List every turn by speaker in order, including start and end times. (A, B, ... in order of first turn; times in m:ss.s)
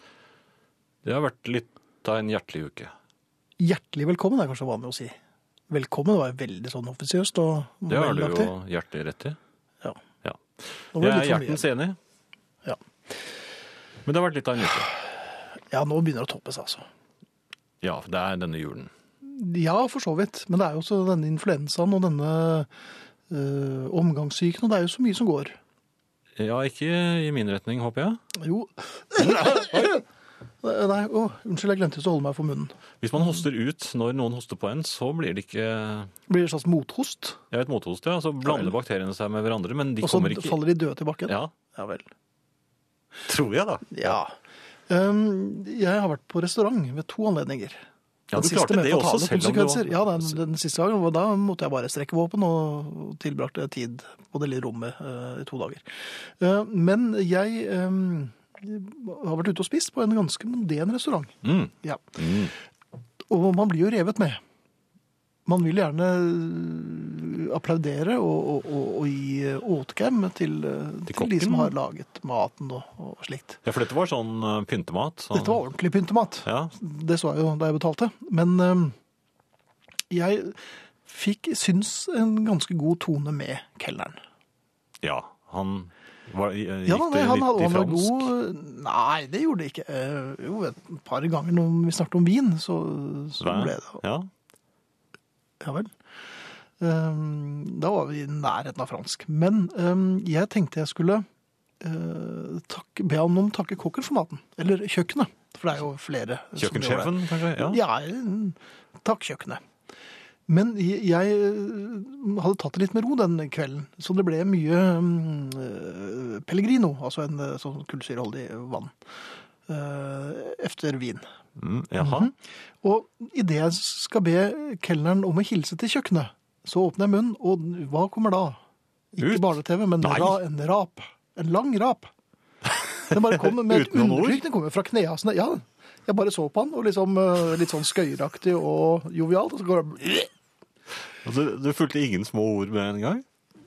0:01.0-0:02.9 A
0:03.6-0:05.2 B
0:05.7-0:08.5 B
0:07.9-0:09.4 A
0:10.2-0:12.0 A
0:11.0-0:11.6 B
0:14.0-0:14.9 A
0:15.7-0:16.9 B
0:17.8-0:18.9 A
0:19.2-0:22.7 B
0:23.3-0:25.6 B
0:26.4-0:28.2 A
0:28.4-0:30.0 B
0:29.2-0:30.0 A
0:30.6-0:32.8 B
0:33.0-0:36.1 A
0:36.3-0:37.4 B
0:37.5-0:40.6 A
0:38.4-0:38.7 B
0:40.0-0:42.1 B
0:41.3-0:41.5 A
0:43.3-0:44.2 A
0:43.9-0:44.4 B
0:44.9-1:02.0 B
0:48.3-0:50.4 A
1:01.4-1:02.5 A
1:03.3-1:04.4 B
1:05.5-1:13.6 B
1:11.1-1:11.7 A
1:13.6-1:15.6 A
1:15.3-1:19.0 B
1:16.4-1:16.7 A
1:20.1-1:24.2 B
1:25.0-1:28.3 A
1:26.9-1:34.0 B
1:33.4-1:34.3 A
1:35.6-1:36.0 B
1:36.8-1:41.3 B
1:41.8-1:49.6 B
1:46.6-1:47.8 A
1:50.5-1:59.0 B
1:59.6-2:01.3 B
2:01.6-2:02.3 A
2:02.0-2:08.6 B
2:09.1-2:12.1 B
2:09.2-2:10.4 A
2:13.1-2:20.3 B
2:13.1-2:14.4 A
2:21.2-2:23.2 A